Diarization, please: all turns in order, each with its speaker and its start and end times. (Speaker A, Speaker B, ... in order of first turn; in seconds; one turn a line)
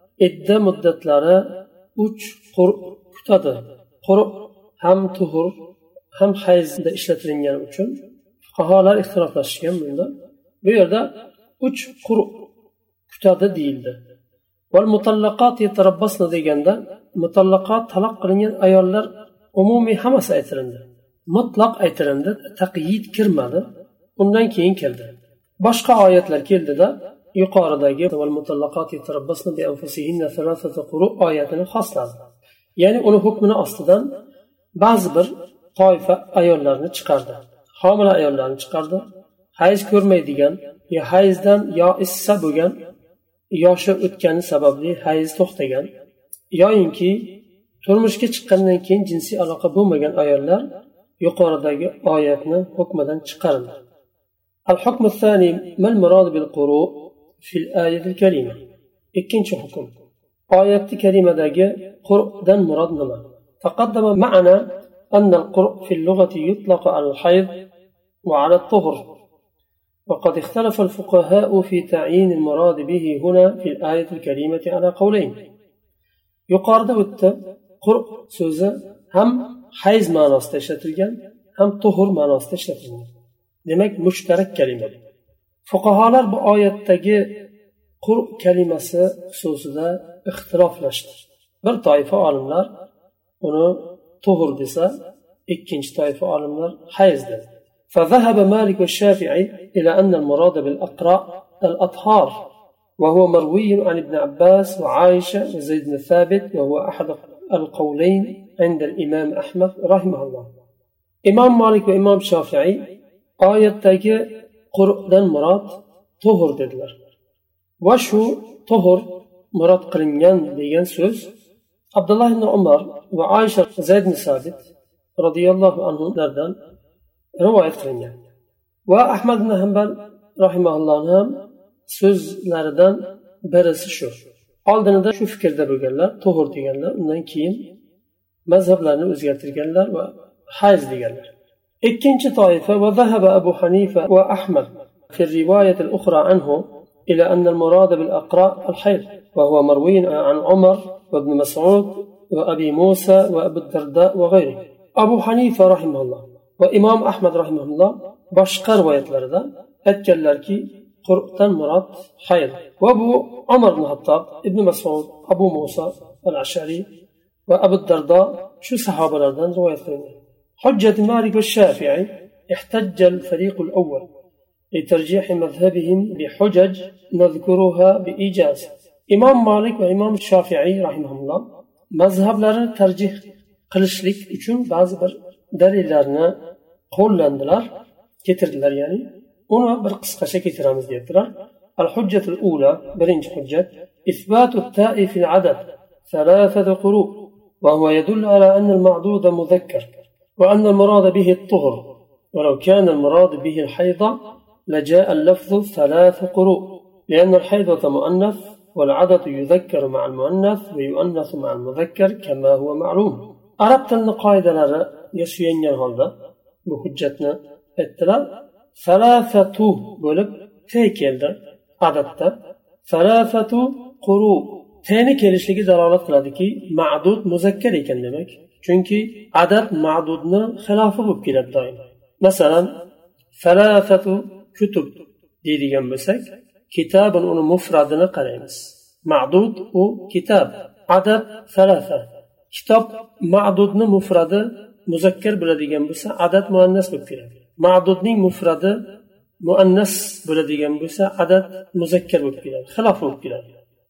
Speaker A: 0.2-5.5
Speaker A: 6.1-10.1
Speaker A: 10.6-12.4
Speaker A: 13.1-14.0
Speaker A: 14.7-32.2
Speaker A: 32.8-34.2
Speaker A: 34.8-39.0
Speaker A: 39.5-42.8
Speaker A: 43.5-45.9
Speaker A: 46.5-50.6
Speaker A: 51.2-53.8
Speaker A: 54.7-58.6
Speaker A: 59.1-59.9
Speaker A: 60.5-67.5
Speaker A: 68.2-69.1
Speaker A: 70.1-75.4
Speaker A: 76.5-83.1
Speaker A: 83.7-85.0
Speaker A: 85.7-87.4
Speaker A: 88.0-92.7
Speaker A: 93.4-95.0
Speaker A: 95.5-102.4
Speaker A: 103.0-110.5
Speaker A: 111.2-112.9
Speaker A: 113.4-117.0
Speaker A: 117.8-121.3
Speaker A: 121.9-124.7
Speaker A: 125.2-126.6
Speaker A: 127.4-128.2
Speaker A: 128.9-137.7
Speaker A: 138.5-141.3
Speaker A: 141.8-166.9
Speaker A: 167.5-174.1
Speaker A: 174.7-186.3
Speaker A: 186.9-187.7
Speaker A: 188.2-204.2
Speaker A: 204.7-216.1
Speaker A: 216.7-222.3
Speaker A: 222.8-232.8
Speaker A: 233.3-248.8
Speaker A: 249.4-253.5